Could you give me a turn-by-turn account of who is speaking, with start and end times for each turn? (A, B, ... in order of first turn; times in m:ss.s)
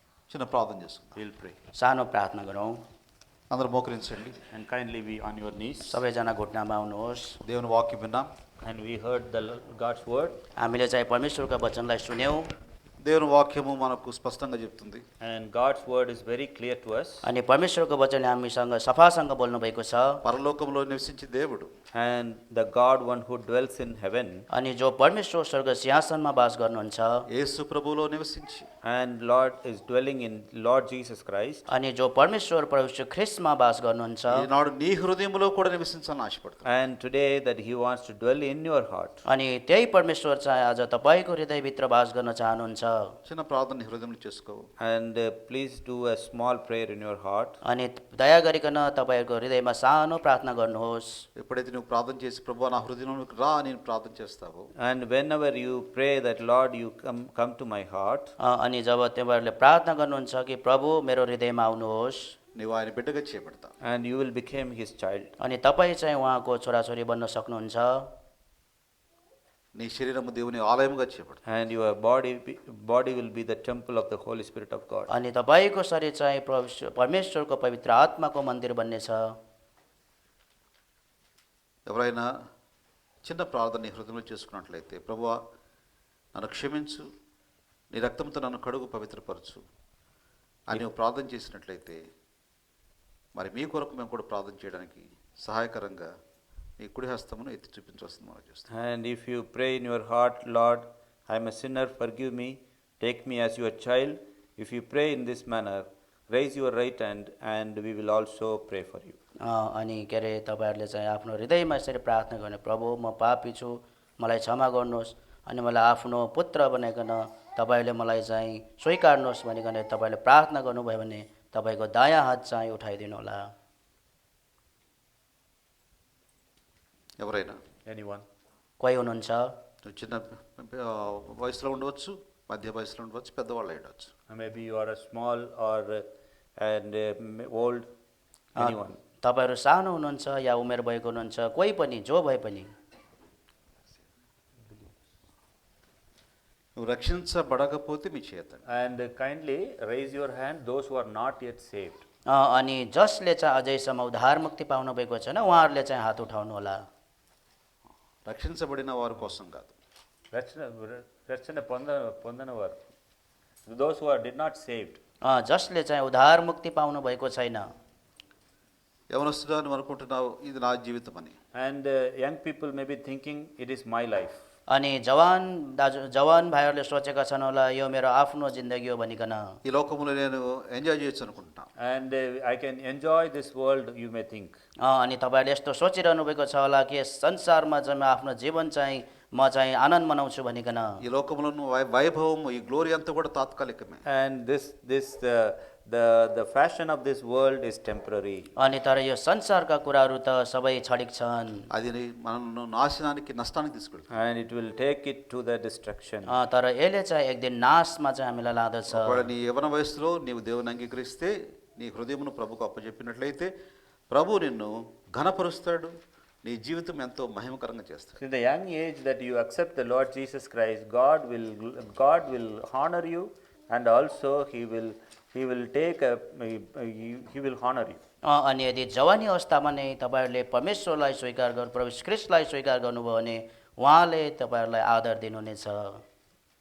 0:00.3-0:01.2 A
0:01.2-0:01.6 B
0:01.8-0:02.8 C
0:03.5-0:04.4 A
0:04.5-0:06.0 B
0:05.9-0:07.4 C
0:07.4-0:08.3 A
0:08.6-0:10.4 B
0:10.6-0:12.5 C
0:13.0-0:15.0 A
0:15.2-0:17.3 B
0:17.2-0:20.2 C
0:20.2-0:21.7 A
0:21.9-0:24.5 B
0:24.5-0:27.3 C
0:27.3-0:28.7 A
0:28.8-0:31.6 B
0:31.7-0:34.5 C
0:34.3-0:36.7 A
0:36.6-0:39.2 B
0:39.3-0:43.1 C
0:43.3-0:44.7 A
0:44.8-0:47.6 B
0:47.6-0:51.2 C
0:51.4-0:54.7 A
0:54.8-0:58.3 B
0:58.4-1:02.4 C
1:02.6-1:03.7 A
1:03.8-1:05.4 B
1:05.4-1:08.1 C
1:09.8-1:11.4 A
1:11.5-1:15.1 B
1:15.1-1:19.4 C
1:21.9-1:22.3 A
1:23.2-1:25.4 A
1:26.4-1:27.1 A
1:27.9-1:29.6 A
1:30.7-1:32.0 A
1:33.4-1:36.1 A
1:36.8-1:38.7 A
1:38.7-1:49.2 B
1:49.4-2:03.5 C
2:07.2-2:07.6 A
2:07.9-2:08.2 B
2:08.8-2:09.5 C
2:09.8-2:14.1 A
2:14.3-2:16.0 B
2:16.6-2:17.9 B
2:18.6-2:19.0 B
2:18.6-2:22.7 C
2:26.8-2:28.6 A
2:28.7-2:32.0 B
2:32.3-2:36.8 C
2:38.2-2:39.8 A
2:40.3-2:42.8 B
2:43.7-2:45.0 B
2:45.2-2:47.7 C
2:49.1-2:51.4 A
2:51.5-2:54.4 B
2:54.7-2:59.5 C
2:59.6-3:01.7 A
3:01.8-3:04.6 B
3:04.8-3:11.0 C
3:11.0-3:14.0 A
3:14.1-3:18.5 B
3:18.6-3:21.7 C
3:21.7-3:24.1 A
3:24.1-3:26.3 B
3:26.3-3:29.3 C
3:28.9-3:33.5 A
3:34.1-3:35.9 A
3:36.4-3:38.2 A
3:38.2-3:48.0 B
3:48.2-3:56.0 C